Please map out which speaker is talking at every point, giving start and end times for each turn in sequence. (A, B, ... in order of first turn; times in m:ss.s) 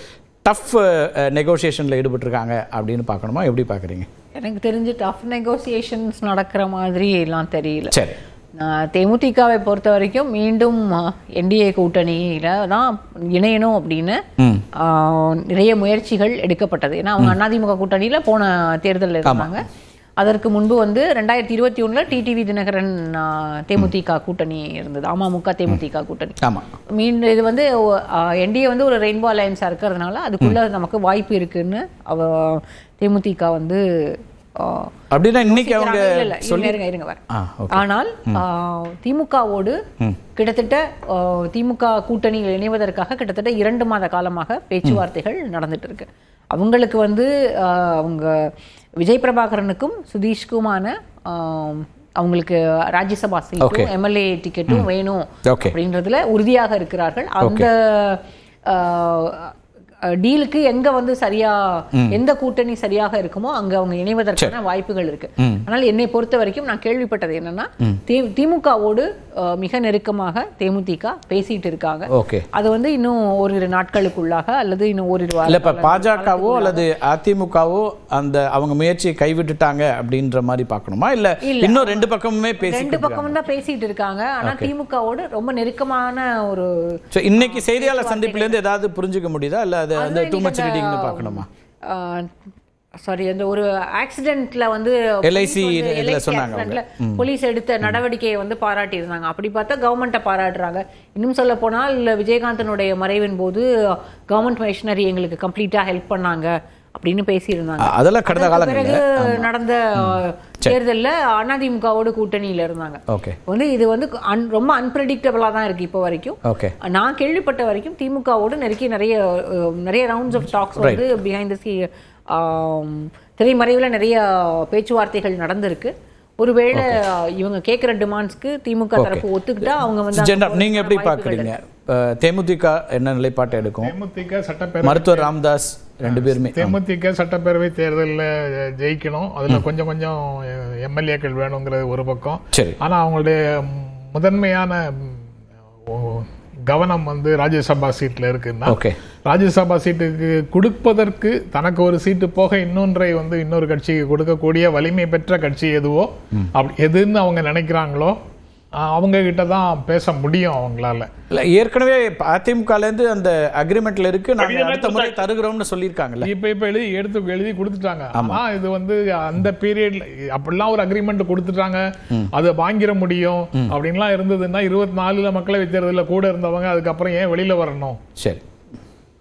0:00.4-0:04.1 A
0:04.4-0:07.9 B
0:08.6-0:14.2 B
0:14.4-0:14.6 A
0:14.8-0:19.7 B
0:19.2-0:19.6 A
0:20.2-0:26.4 B
0:26.4-0:26.7 A
0:26.9-0:39.8 B
0:35.1-0:38.4 A
0:40.4-0:48.3 B
0:49.0-0:59.5 B
0:53.6-0:53.9 A
0:55.5-0:55.8 A
0:57.4-0:57.7 A
1:00.2-1:16.8 B
1:12.1-1:12.5 A
1:15.5-1:23.4 A
1:21.4-1:26.7 B
1:24.4-1:24.7 A
1:27.1-1:31.5 A
1:27.3-1:28.6 B
1:30.0-1:32.3 B
1:33.0-2:11.5 B
1:35.2-1:37.2 A
1:47.8-1:50.8 A
1:53.1-1:53.4 A
1:56.4-1:56.7 A
2:00.8-2:01.0 A
2:06.7-2:07.0 A
2:09.0-2:09.2 A
2:10.1-2:13.9 A
2:13.8-2:15.3 C
2:14.8-2:16.8 A
2:16.0-2:25.2 C
2:22.5-2:22.8 A
2:25.9-2:38.2 C
2:28.7-2:29.0 A
2:38.9-2:41.1 C
2:41.3-2:46.3 A
2:44.6-2:45.1 C
2:46.2-2:58.0 C
2:48.2-2:48.4 A